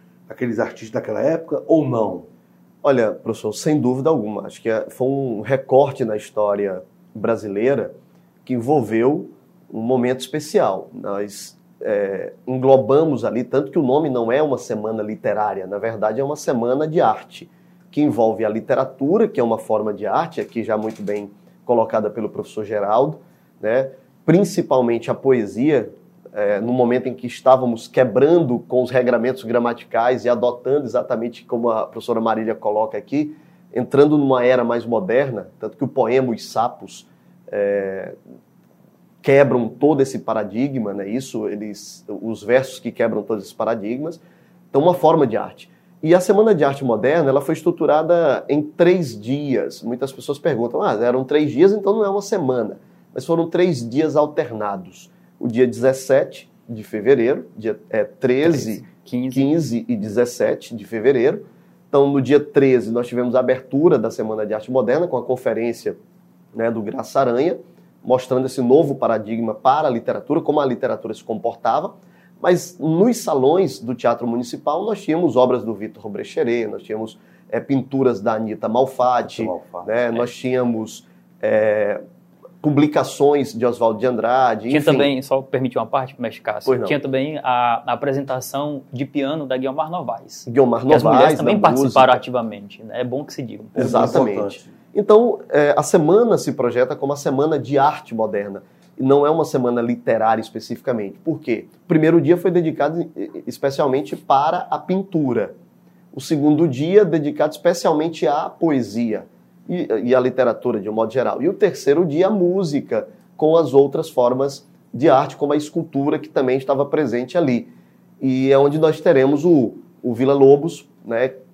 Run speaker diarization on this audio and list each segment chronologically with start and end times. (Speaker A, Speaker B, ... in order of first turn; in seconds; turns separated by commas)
Speaker A: 0.3-2.3, Speaker B: 2.8-38.1, Speaker B: 39.2-44.2, Speaker B: 44.7-66.0, Speaker C: 58.4-59.5, Speaker B: 66.5-82.0, Speaker A: 79.2-80.2, Speaker B: 82.6-85.1, Speaker C: 84.7-94.3, Speaker B: 86.7-87.0, Speaker B: 90.5-92.2, Speaker A: 93.8-94.7, Speaker B: 93.8-105.5, Speaker B: 106.1-121.3